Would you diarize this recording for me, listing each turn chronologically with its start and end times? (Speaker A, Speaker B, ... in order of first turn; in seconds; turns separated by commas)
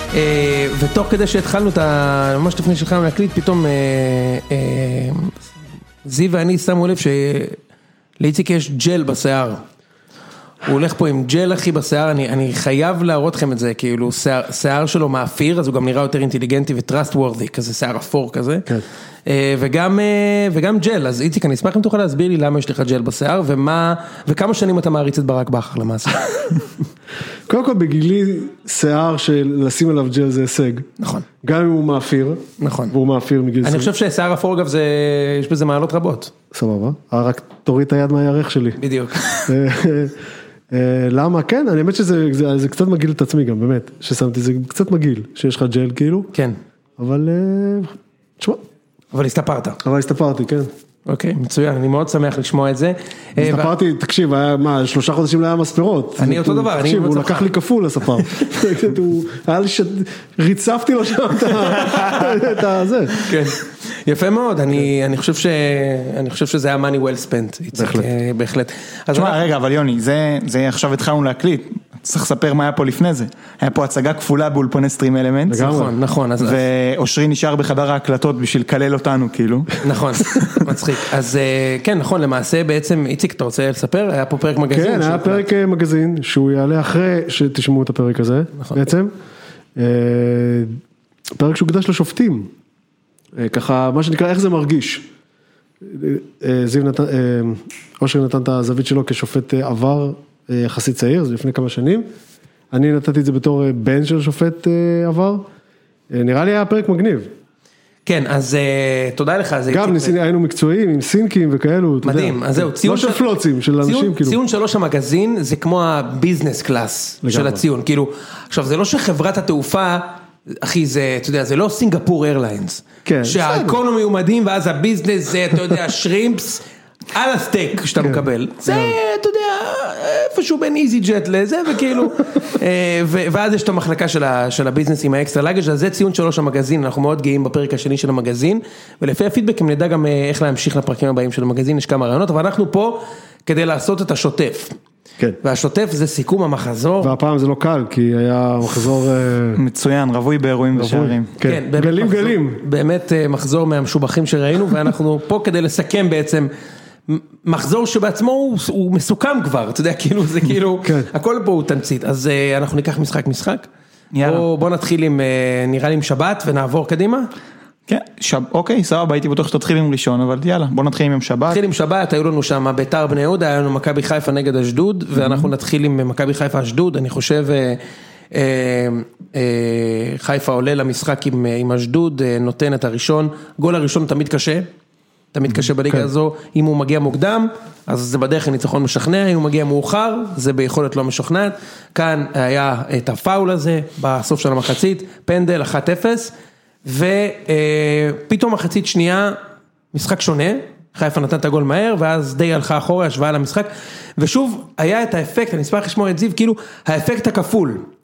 Speaker A: 0.1-5.4, Speaker A: 6.0-7.6, Speaker A: 8.2-9.6, Speaker A: 10.6-18.7, Speaker A: 19.2-26.6, Speaker B: 27.5-30.9, Speaker A: 31.0-31.2, Speaker B: 31.4-33.9, Speaker A: 32.6-32.9, Speaker A: 33.6-36.3, Speaker B: 36.5-38.8, Speaker A: 38.8-39.5, Speaker B: 39.5-40.2, Speaker B: 40.7-46.3, Speaker B: 47.0-48.6, Speaker A: 49.1-49.8, Speaker B: 49.8-50.7, Speaker A: 51.0-53.7, Speaker B: 53.4-63.2, Speaker A: 56.2-57.5, Speaker A: 63.2-69.5, Speaker B: 67.8-68.1, Speaker C: 69.1-75.8, Speaker B: 75.5-75.9, Speaker A: 75.6-76.6, Speaker C: 76.4-80.6, Speaker A: 79.8-85.5, Speaker B: 84.7-89.1, Speaker B: 89.8-90.8, Speaker B: 91.4-92.5, Speaker B: 93.3-95.0, Speaker B: 95.8-102.0, Speaker B: 102.7-105.5, Speaker B: 106.1-107.3, Speaker A: 108.0-110.1, Speaker B: 109.7-114.4, Speaker A: 112.0-113.2, Speaker A: 113.8-144.7, Speaker B: 117.2-117.6, Speaker B: 123.0-123.8, Speaker B: 128.0-128.9, Speaker A: 145.4-147.1, Speaker B: 147.0-149.6, Speaker C: 149.6-151.3, Speaker B: 150.7-152.6, Speaker A: 151.4-156.5, Speaker A: 157.1-163.7, Speaker C: 164.1-164.4, Speaker A: 164.2-167.3, Speaker C: 167.9-171.6, Speaker A: 171.5-177.8, Speaker A: 178.3-184.7, Speaker A: 185.3-196.3, Speaker A: 196.8-199.4, Speaker A: 199.9-207.8